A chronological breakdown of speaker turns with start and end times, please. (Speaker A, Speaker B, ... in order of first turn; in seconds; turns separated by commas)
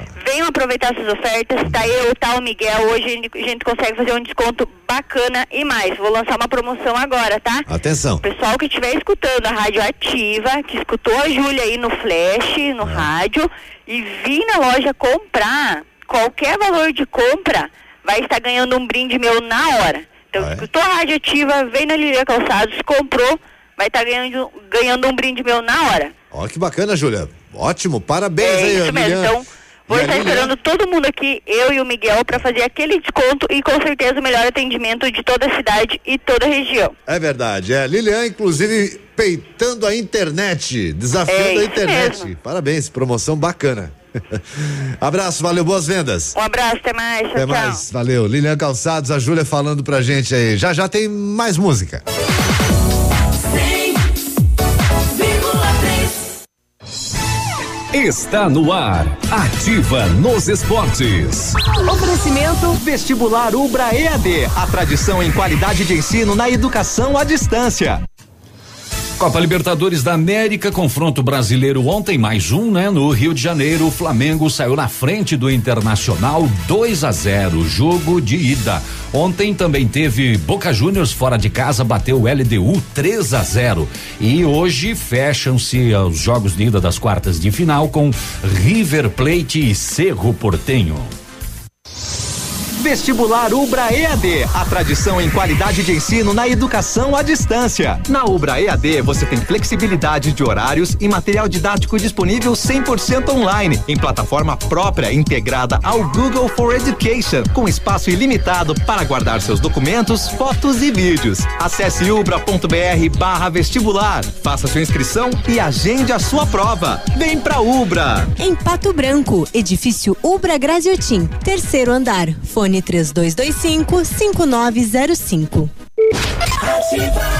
Speaker A: 0.2-7.6, Speaker B: 7.7-8.2, Speaker A: 8.2-26.1, Speaker B: 20.4-20.6, Speaker B: 26.3-29.4, Speaker A: 28.4-36.9, Speaker B: 29.9-30.5, Speaker B: 37.0-46.4, Speaker A: 41.3-42.3, Speaker A: 46.4-47.8, Speaker B: 47.3-52.0, Speaker C: 57.9-61.5, Speaker D: 62.7-68.0, Speaker C: 69.2-91.1, Speaker D: 92.8-118.3, Speaker E: 118.4-125.7